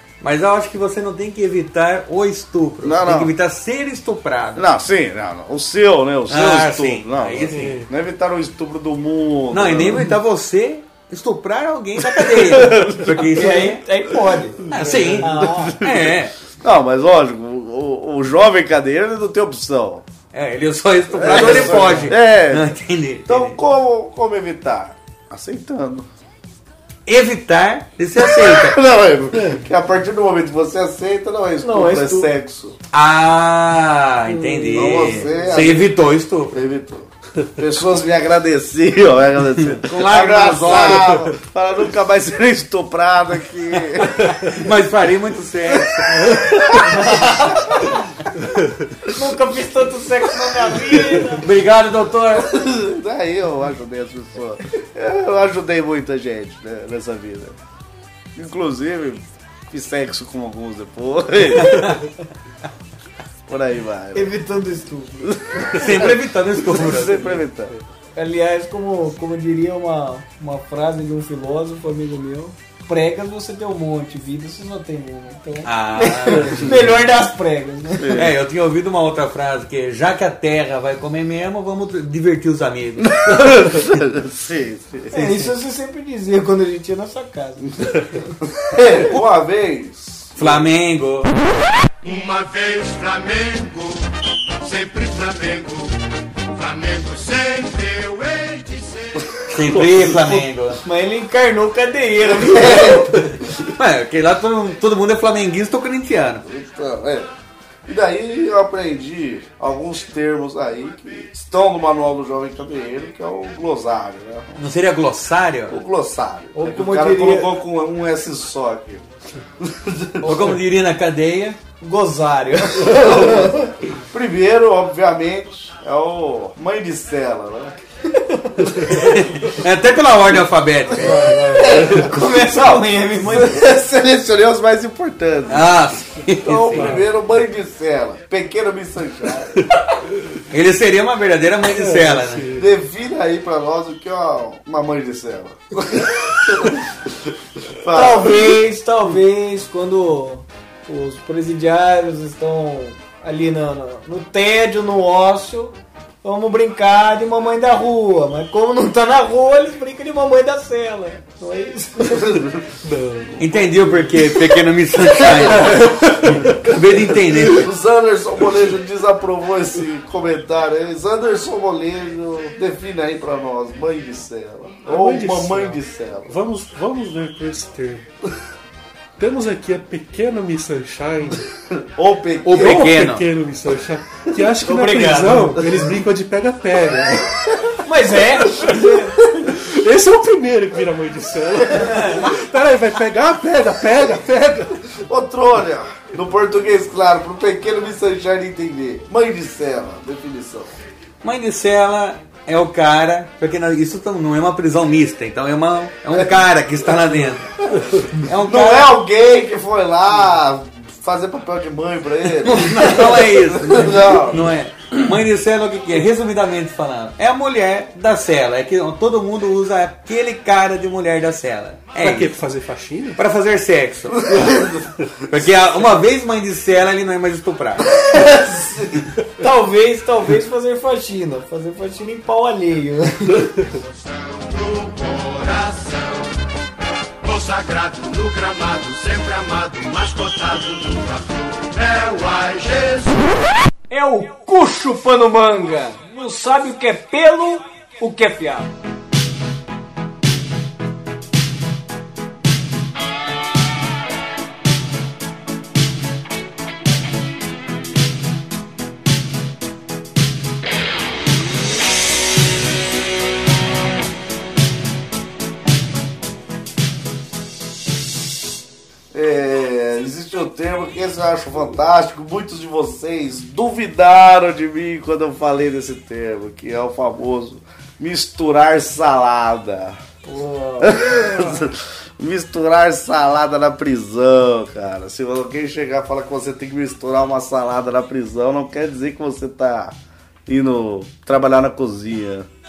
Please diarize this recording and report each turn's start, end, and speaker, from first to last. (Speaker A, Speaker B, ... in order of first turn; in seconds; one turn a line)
Speaker A: 0.2-4.7
Speaker B: 2.8-3.3
Speaker B: 4.5-10.1
Speaker A: 6.3-7.8
Speaker C: 7.5-7.9
Speaker A: 9.5-13.8
Speaker B: 12.2-13.2
Speaker D: 13.3-14.6
Speaker C: 14.6-15.3
Speaker A: 14.7-16.4
Speaker D: 15.2-15.8
Speaker B: 15.3-20.0
Speaker A: 20.3-23.6
Speaker B: 21.1-26.1
Speaker A: 27.1-28.8
Speaker B: 28.2-32.8
Speaker D: 31.6-32.3
Speaker A: 32.9-36.6
Speaker D: 34.3-35.5
Speaker B: 34.7-35.9
Speaker B: 36.5-44.3
Speaker A: 39.6-41.3
Speaker A: 44.1-46.5
Speaker B: 46.1-48.0
Speaker D: 46.8-47.9
Speaker D: 49.1-51.5
Speaker A: 51.4-52.5
Speaker B: 52.3-57.6
Speaker B: 58.3-62.0
Speaker A: 61.6-62.0
Speaker B: 63.5-64.3
Speaker D: 64.1-65.8
Speaker B: 65.2-67.7
Speaker A: 65.7-67.4
Speaker D: 68.2-78.2
Speaker A: 75.6-76.8
Speaker B: 77.9-78.4
Speaker A: 78.1-83.9
Speaker B: 83.0-85.2
Speaker D: 85.1-88.3
Speaker B: 88.4-90.7
Speaker A: 90.4-91.3
Speaker E: 92.0-94.0
Speaker E: 94.6-96.0
Speaker E: 96.5-99.3
Speaker A: 99.5-100.8
Speaker C: 99.6-100.4
Speaker D: 100.8-103.1
Speaker B: 102.2-103.3
Speaker A: 103.7-106.4
Speaker B: 106.4-107.3
Speaker B: 107.9-114.6
Speaker A: 114.6-115.8
Speaker B: 115.7-119.0
Speaker D: 116.5-117.5
Speaker B: 119.6-120.6
Speaker A: 120.2-121.6
Speaker D: 121.8-123.7
Speaker B: 122.7-127.8
Speaker D: 128.2-128.7
Speaker A: 128.9-131.5
Speaker D: 131.0-133.7
Speaker B: 131.5-135.7
Speaker A: 135.5-137.0
Speaker B: 136.4-139.6
Speaker C: 136.7-137.1
Speaker A: 140.5-142.5
Speaker C: 141.7-142.7
Speaker B: 142.6-148.5
Speaker D: 147.9-162.4
Speaker B: 162.0-162.7
Speaker C: 162.8-163.4
Speaker A: 163.4-167.7
Speaker B: 165.2-166.0
Speaker C: 166.2-166.7
Speaker B: 167.1-176.3
Speaker C: 174.8-178.1
Speaker C: 179.2-181.5
Speaker B: 181.7-182.8
Speaker A: 182.4-183.3
Speaker C: 182.6-187.4
Speaker D: 184.6-185.6
Speaker D: 187.8-189.3
Speaker C: 188.6-194.9
Speaker B: 194.9-200.8
Speaker A: 201.2-207.6
Speaker B: 207.6-214.5
Speaker A: 208.1-208.9
Speaker A: 212.4-222.3
Speaker C: 222.0-223.2
Speaker A: 223.1-224.3
Speaker B: 224.2-225.4
Speaker C: 224.3-225.1
Speaker A: 225.3-228.1
Speaker B: 228.0-229.0
Speaker D: 229.4-233.5
Speaker E: 233.9-236.3
Speaker E: 237.2-243.3
Speaker D: 243.9-248.7
Speaker B: 269.1-280.0
Speaker D: 280.2-281.5
Speaker B: 280.8-289.9
Speaker B: 290.5-292.5